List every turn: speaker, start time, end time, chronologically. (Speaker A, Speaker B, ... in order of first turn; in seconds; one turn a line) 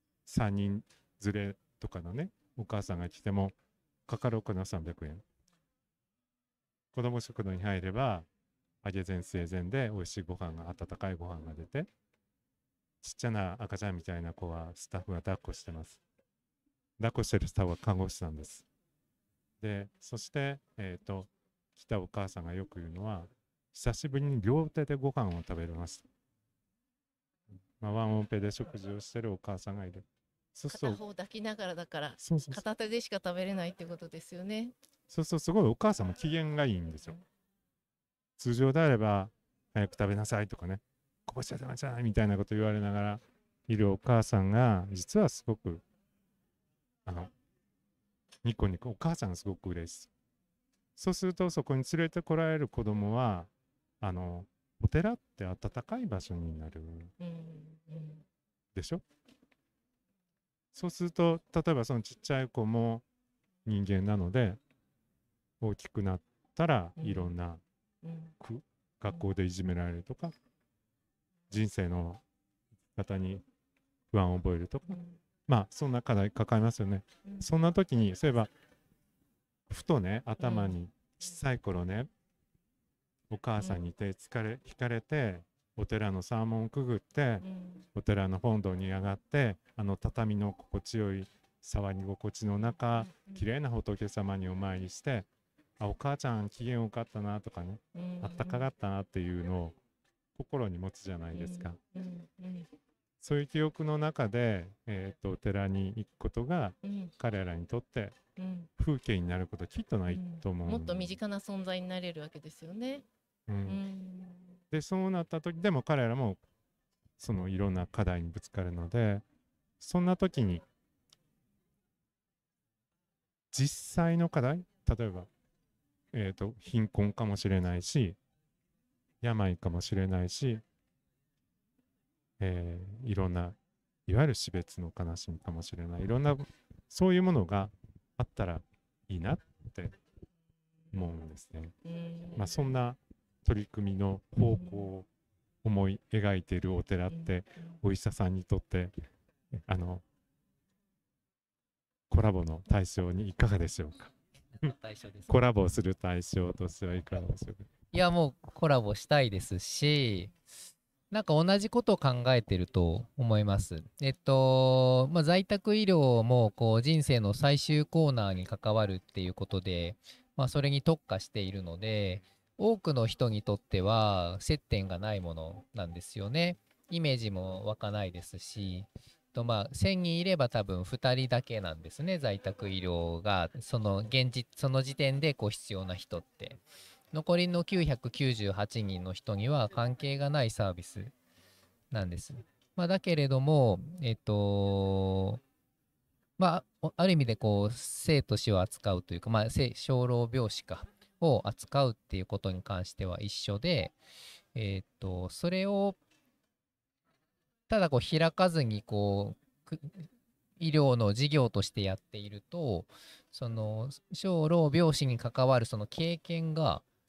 Speaker A: 0.2-3.5
Speaker A: 4.1-5.2
Speaker A: 6.9-8.3
Speaker A: 8.8-11.9
Speaker A: 13.0-16.0
Speaker A: 17.0-18.6
Speaker A: 19.6-26.0
Speaker A: 27.8-31.0
Speaker B: 30.7-34.7
Speaker A: 32.2-32.6
Speaker A: 35.1-37.2
Speaker A: 38.4-45.8
Speaker A: 47.0-47.3
Speaker A: 48.4-50.1
Speaker A: 51.0-53.5
Speaker A: 54.0-57.1
Speaker B: 57.2-58.2
Speaker A: 58.7-59.0
Speaker A: 60.7-63.0
Speaker A: 63.6-64.6
Speaker A: 65.6-67.6
Speaker B: 67.0-67.3
Speaker B: 68.0-68.3
Speaker A: 68.4-70.3
Speaker A: 71.5-72.2
Speaker A: 72.9-73.4
Speaker A: 74.1-78.5
Speaker B: 74.9-75.2
Speaker A: 79.7-82.1
Speaker B: 80.4-80.8
Speaker A: 83.3-95.3
Speaker B: 87.4-87.8
Speaker A: 95.8-99.8
Speaker B: 97.9-98.6
Speaker A: 100.3-101.8
Speaker B: 101.3-102.7
Speaker A: 103.2-108.2
Speaker B: 106.8-107.1
Speaker B: 108.4-108.7
Speaker A: 108.8-111.2
Speaker B: 110.1-113.0
Speaker A: 113.5-113.8
Speaker B: 113.7-114.5
Speaker A: 114.7-116.4
Speaker A: 117.2-119.2
Speaker A: 119.8-120.6
Speaker A: 123.5-125.3
Speaker A: 126.1-128.2
Speaker A: 129.2-130.6
Speaker A: 132.4-139.9
Speaker A: 140.9-141.7
Speaker B: 141.8-142.7
Speaker A: 142.3-145.1
Speaker A: 145.6-148.9
Speaker A: 149.6-150.0
Speaker A: 152.1-154.7
Speaker C: 154.6-155.3
Speaker A: 155.3-157.7
Speaker C: 157.9-160.3
Speaker C: 161.1-186.6
Speaker C: 187.1-191.1
Speaker C: 191.9-195.4
Speaker C: 196.4-203.9
Speaker C: 204.5-206.0
Speaker C: 207.7-210.1
Speaker C: 210.6-216.8